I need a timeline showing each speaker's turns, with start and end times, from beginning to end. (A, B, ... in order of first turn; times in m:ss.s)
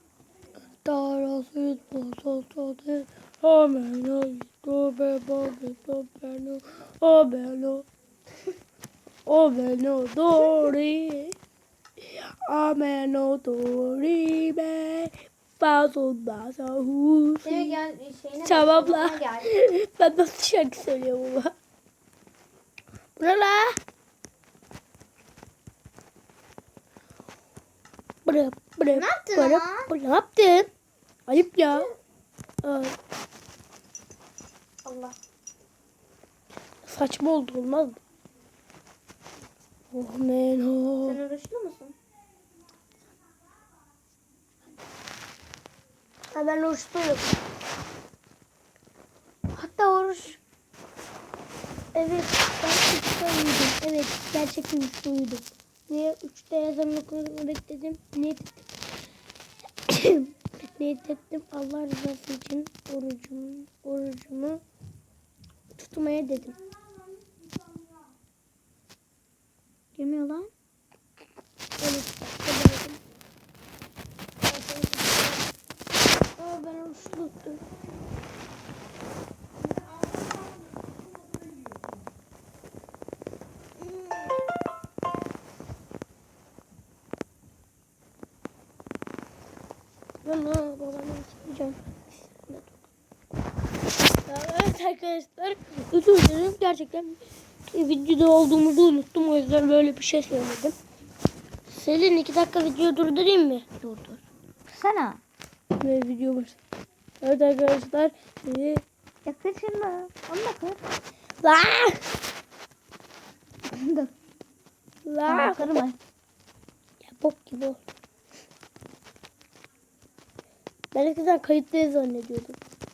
0:00.8-0:07.9 A
0:09.3-0:11.4 A
0:12.0-0:17.8 A
0:17.4-0:19.5 B
0:18.4-0:21.5 A
0:23.2-0:23.8 A
0:28.2-0:30.7 A
0:28.9-0:29.9 B
0:31.3-0:31.9 A
0:32.6-0:32.9 A
0:34.8-0:35.2 B
0:36.8-0:38.0 A
0:39.9-0:41.2 A
0:41.0-0:42.0 B
0:46.3-0:47.4 A
0:51.9-0:58.7 A
0:59.9-1:04.6 A
1:05.8-1:06.6 A
1:10.0-1:10.5 B
1:11.8-1:13.0 A
1:14.5-1:15.4 A
1:16.4-1:17.6 A
1:30.2-1:32.9 A
1:34.3-1:37.2 A
1:37.7-1:40.8 A
1:41.7-1:43.7 A
1:43.8-1:45.2 B
1:45.8-1:46.6 A
1:47.2-1:48.8 A
1:49.2-1:50.8 B
1:51.4-1:52.0 A
1:53.7-1:54.1 B
1:55.1-1:55.8 A
1:55.3-1:56.0 B
1:57.0-1:57.8 A
2:00.9-2:02.6 A